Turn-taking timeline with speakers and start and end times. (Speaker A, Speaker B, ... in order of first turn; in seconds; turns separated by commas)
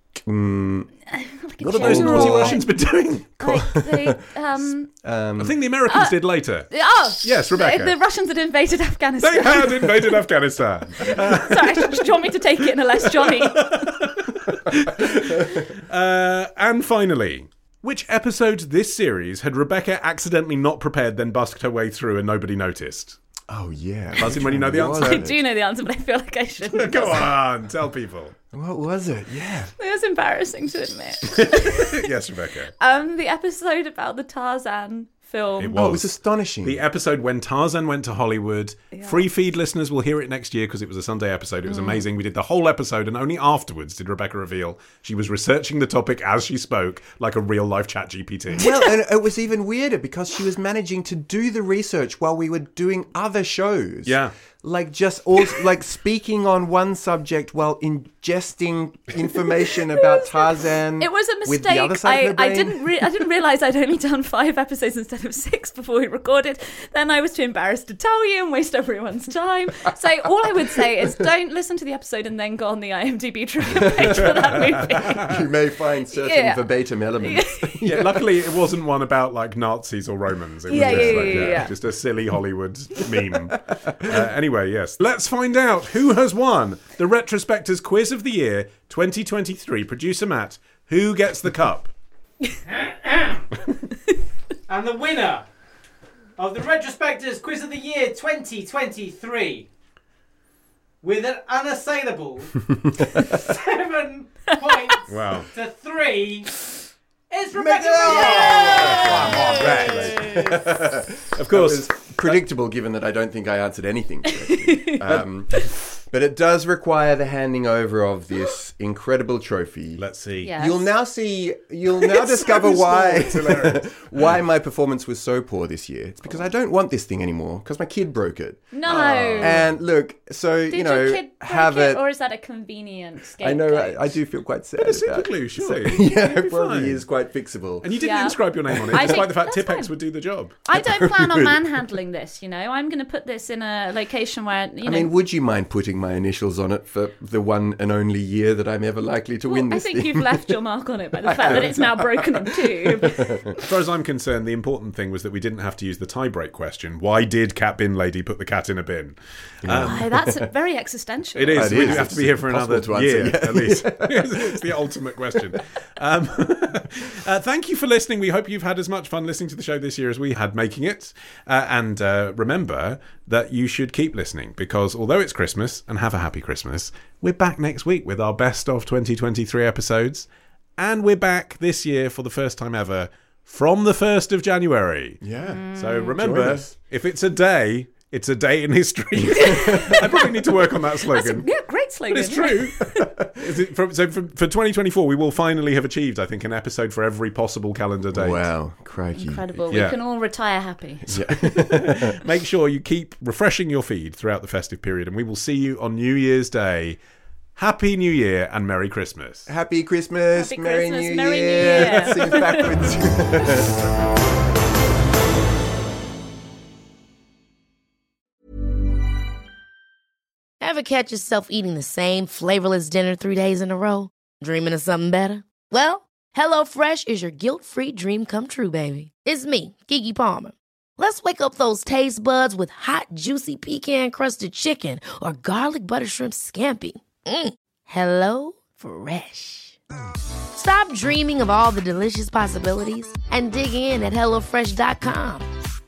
Speaker A: 0.2-0.9, Speaker B: 1.1-2.7, Speaker A: 1.6-2.6, Speaker C: 1.8-3.4, Speaker B: 3.4-4.9, Speaker A: 3.4-4.3, Speaker A: 5.0-5.6, Speaker C: 5.4-8.0, Speaker B: 5.9-6.2, Speaker B: 6.7-10.2, Speaker C: 9.2-23.2, Speaker B: 11.0-13.8, Speaker A: 23.5-25.4, Speaker C: 24.2-25.3, Speaker B: 24.5-27.3, Speaker C: 26.6-28.4, Speaker A: 28.5-29.7, Speaker B: 29.8-32.1, Speaker C: 31.3-32.7, Speaker B: 32.8-35.8, Speaker C: 35.6-48.8, Speaker A: 35.7-36.8, Speaker B: 38.9-39.2, Speaker B: 41.7-42.0, Speaker A: 48.5-63.1, Speaker C: 54.1-54.3, Speaker B: 61.0-75.4, Speaker A: 73.7-78.2, Speaker C: 74.0-75.3, Speaker B: 76.1-76.7, Speaker B: 77.2-77.8, Speaker C: 77.8-91.9, Speaker B: 80.7-81.7, Speaker A: 80.7-81.7, Speaker D: 92.7-93.5, Speaker D: 94.7-95.5, Speaker D: 96.4-99.7, Speaker D: 101.0-106.5, Speaker A: 102.8-103.3, Speaker C: 105.1-105.5, Speaker D: 107.3-110.0, Speaker A: 107.6-120.0, Speaker C: 107.6-110.6, Speaker B: 108.1-110.5, Speaker C: 111.3-112.4, Speaker B: 114.5-115.1, Speaker C: 120.0-120.5, Speaker B: 120.4-120.8, Speaker A: 120.6-128.8, Speaker C: 122.3-123.8, Speaker B: 128.7-129.6, Speaker C: 128.8-129.7, Speaker A: 129.4-132.0, Speaker B: 130.7-134.1, Speaker A: 133.4-137.9, Speaker C: 134.8-137.0, Speaker C: 137.8-140.6, Speaker B: 138.0-139.9, Speaker B: 140.7-145.1, Speaker A: 140.7-141.6, Speaker A: 144.8-150.6, Speaker B: 149.5-153.6, Speaker A: 151.2-153.6, Speaker C: 153.6-160.1, Speaker A: 159.6-160.5, Speaker B: 159.7-162.1, Speaker C: 161.3-185.2, Speaker A: 161.5-164.8, Speaker A: 185.2-186.7, Speaker B: 185.4-186.1, Speaker C: 185.8-191.5, Speaker B: 189.4-193.1, Speaker C: 192.1-198.5, Speaker A: 198.1-199.7, Speaker B: 199.2-201.1, Speaker C: 199.7-200.0, Speaker A: 201.1-202.2, Speaker C: 201.1-207.0, Speaker C: 207.6-209.5, Speaker A: 209.5-213.8, Speaker B: 210.4-212.7, Speaker E: 220.6-239.8, Speaker E: 240.5-245.5